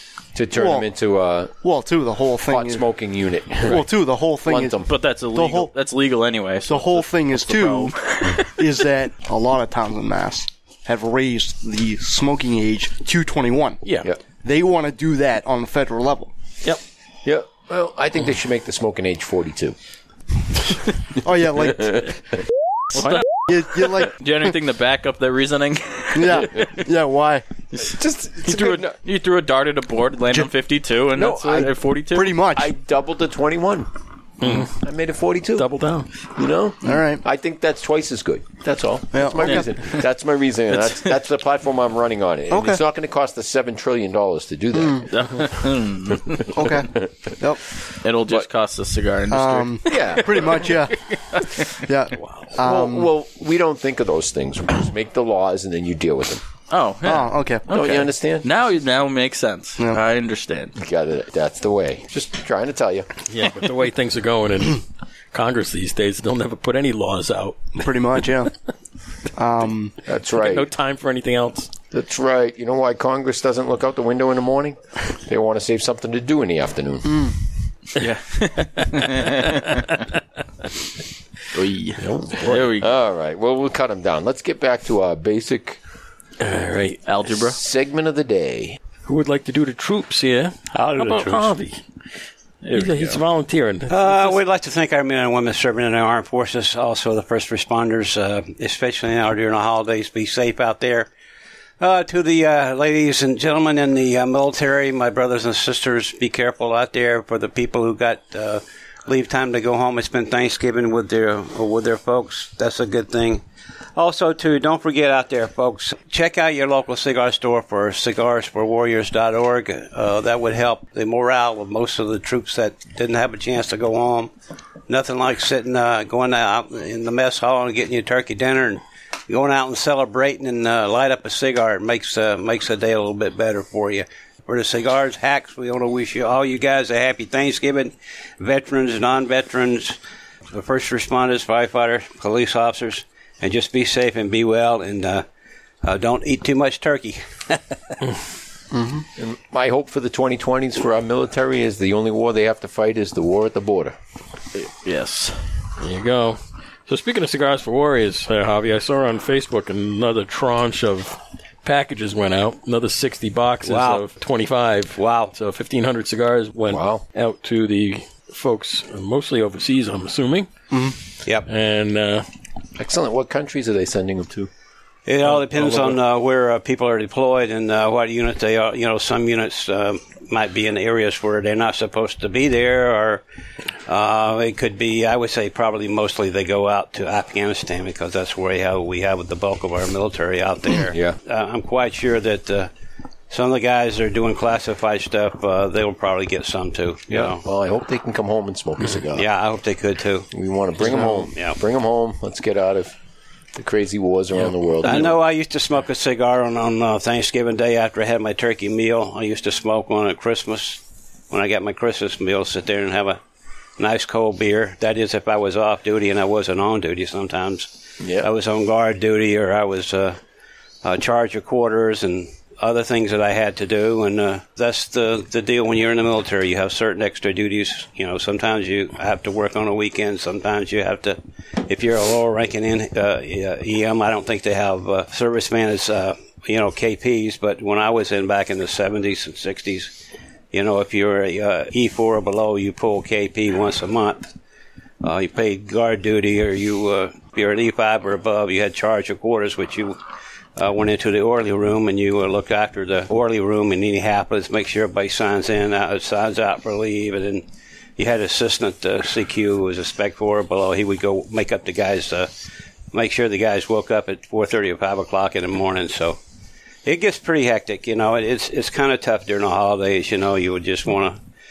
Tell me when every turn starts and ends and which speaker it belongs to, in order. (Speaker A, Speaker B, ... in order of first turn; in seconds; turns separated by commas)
Speaker A: 0.3-1.5, Speaker B: 0.5-0.9, Speaker B: 1.6-2.9, Speaker A: 2.4-3.9, Speaker B: 3.6-4.8, Speaker A: 4.4-5.0, Speaker C: 4.8-8.5, Speaker B: 5.3-5.7, Speaker B: 6.7-13.8, Speaker D: 13.8-14.1, Speaker B: 14.4-16.3, Speaker A: 17.2-19.8, Speaker B: 21.2-22.1, Speaker A: 21.6-22.1, Speaker D: 22.9-23.3, Speaker B: 23.5-24.1, Speaker C: 24.0-26.7, Speaker B: 26.1-27.4, Speaker C: 27.7-32.4, Speaker A: 27.8-29.0, Speaker A: 31.1-31.8, Speaker B: 32.1-32.7, Speaker A: 32.5-33.9, Speaker D: 34.4-34.8, Speaker A: 34.6-35.7, Speaker D: 35.5-36.1, Speaker A: 36.3-45.2, Speaker B: 36.8-37.2, Speaker B: 39.1-39.7, Speaker B: 42.5-42.8, Speaker B: 44.7-45.1, Speaker C: 45.1-46.5, Speaker B: 46.5-47.6, Speaker C: 48.0-50.6, Speaker B: 49.3-51.0, Speaker A: 49.8-50.8, Speaker C: 51.3-51.6, Speaker B: 51.7-53.1, Speaker D: 52.1-52.5, Speaker A: 52.6-56.4, Speaker C: 56.7-60.7, Speaker B: 57.0-57.6, Speaker A: 57.7-58.5, Speaker A: 60.8-63.1, Speaker D: 63.3-67.7, Speaker B: 67.8-68.5, Speaker B: 69.3-69.9, Speaker A: 70.0-70.7, Speaker D: 70.3-71.7, Speaker A: 71.9-77.3, Speaker C: 78.0-79.9, Speaker C: 81.5-82.9, Speaker D: 82.0-82.7, Speaker A: 82.8-85.8, Speaker D: 86.4-87.0, Speaker C: 87.0-87.6, Speaker A: 87.4-88.8, Speaker D: 89.0-91.8, Speaker E: 90.7-91.5, Speaker C: 92.6-93.2, Speaker D: 92.7-94.4, Speaker E: 93.9-101.1, Speaker E: 101.8-113.4, Speaker E: 114.0-124.3, Speaker E: 124.9-140.0, Speaker E: 140.5-145.2, Speaker E: 145.8-147.8, Speaker B: 148.7-149.0, Speaker A: 149.2-153.9, Speaker C: 154.5-155.4, Speaker D: 155.8-170.5, Speaker E: 163.6-164.0, Speaker E: 165.0-165.3, Speaker A: 166.7-167.0, Speaker D: 171.4-172.2, Speaker A: 172.8-174.5, Speaker E: 175.1-183.2, Speaker E: 183.8-192.7, Speaker A: 190.8-191.2, Speaker E: 193.3-197.4, Speaker A: 197.1-199.3, Speaker E: 199.1-200.3, Speaker A: 200.3-202.9, Speaker E: 200.8-201.6, Speaker A: 203.5-205.2, Speaker E: 204.8-213.2, Speaker E: 213.8-220.2, Speaker A: 218.0-218.3, Speaker E: 220.8-239.9, Speaker E: 240.5-244.3, Speaker E: 245.0-250.0, Speaker E: 250.6-257.4, Speaker E: 258.0-262.3, Speaker E: 262.9-266.2, Speaker E: 266.8-271.2